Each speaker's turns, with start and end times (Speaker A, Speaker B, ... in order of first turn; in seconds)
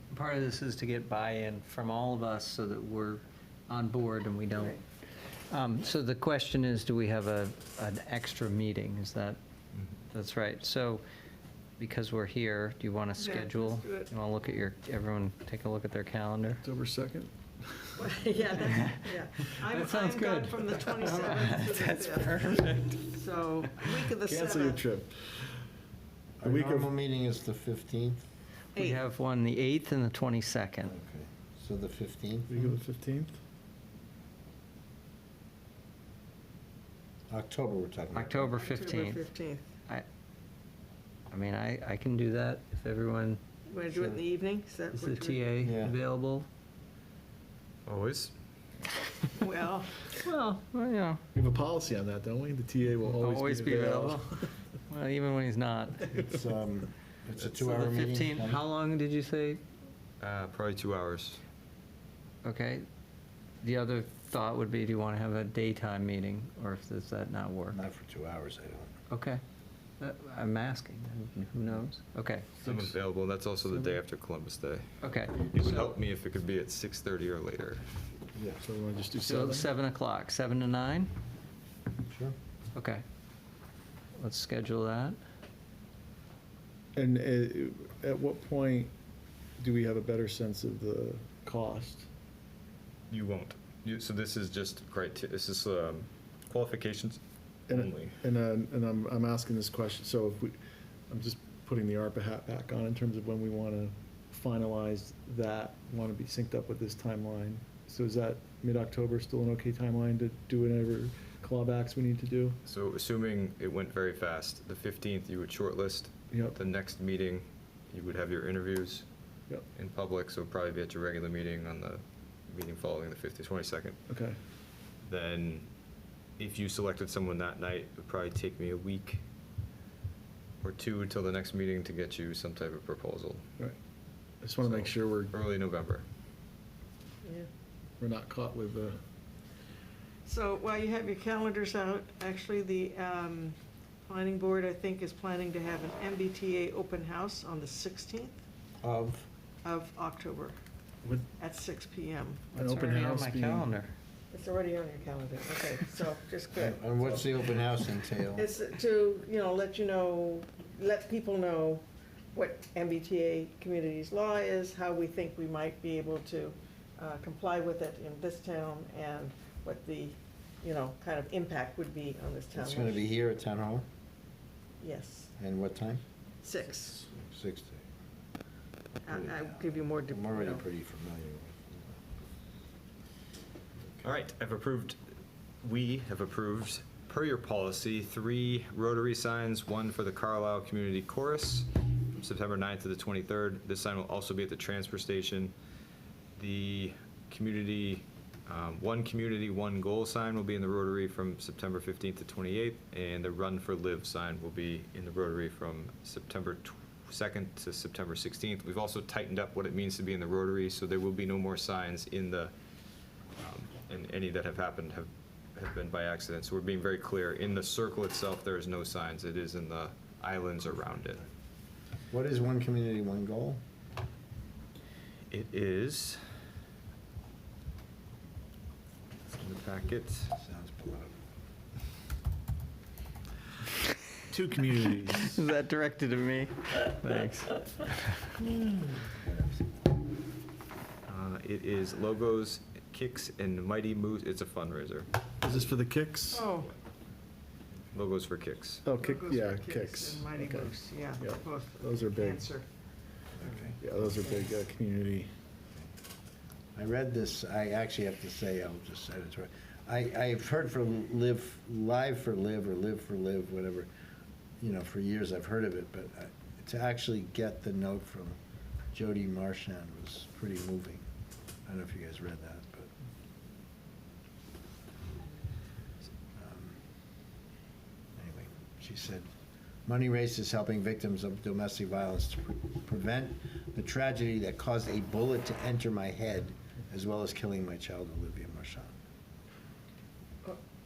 Speaker A: 0.1-4.8, 5.5-9.4, 10.1-11.0, 11.8-16.6, 18.6-23.0, 28.8-30.9, 38.1-39.2, 41.3-43.4, 44.9-46.5, 50.2-51.2, 53.2-54.4, 54.9-56.0, 57.6-59.6, 62.4-62.9, 63.6-67.8, 69.1-69.4, 70.0-72.6, 75.0-75.9, 79.2-81.1, 82.7-83.0, 84.2-85.2, 152.6-153.9, 235.1-238.0
Speaker B: 13.2-14.1, 18.0-24.8, 28.7-29.0, 38.5-39.7, 43.7-45.4, 49.4-50.1, 140.2-148.4, 149.6-150.5, 151.4-152.6, 154.3-157.6, 158.3-173.0, 174.8-175.3, 176.4-177.1, 179.0-180.6, 246.3-246.7, 249.0-252.7
Speaker C: 16.6-18.1, 24.2-25.6, 26.4-26.9, 32.5-33.4, 51.3-54.5, 56.0-56.4, 78.6-79.7, 87.0-88.9, 89.6-92.1, 97.7-100.6, 101.1-112.6, 116.3-116.6, 124.1-124.4, 134.4-135.3, 138.0-139.0, 151.0-151.3, 152.5-153.7, 234.3-235.3, 245.4-246.5, 248.8-252.5, 253.8-255.3
Speaker D: 26.4-28.2, 30.8-32.6, 37.3-38.5, 43.9-44.2, 45.6-46.0, 56.2-58.6, 67.7-68.9, 78.3-78.7, 82.1-82.3, 148.8-149.3, 156.5-158.5, 172.5-173.8, 175.4-176.0, 177.1-177.8, 179.0-182.0, 220.7-221.3, 222.1-223.6, 230.3-231.1, 239.1-239.6, 253.4-253.8, 256.7-263.9, 264.6-268.4, 268.9-271.0, 271.6-272.9, 276.4-276.8, 278.2-279.3, 279.9-288.9
Speaker E: 47.9-48.3, 60.2-61.4, 72.6-77.8, 93.1-98.2, 112.6-119.0, 119.7-124.0, 125.0-125.7, 126.4-129.2, 130.6-133.4, 134.6-136.0, 184.0-185.0, 185.6-195.5, 196.3-212.5, 213.4-221.2, 225.3-226.2, 229.3-230.3, 241.1-245.1, 247.9-248.8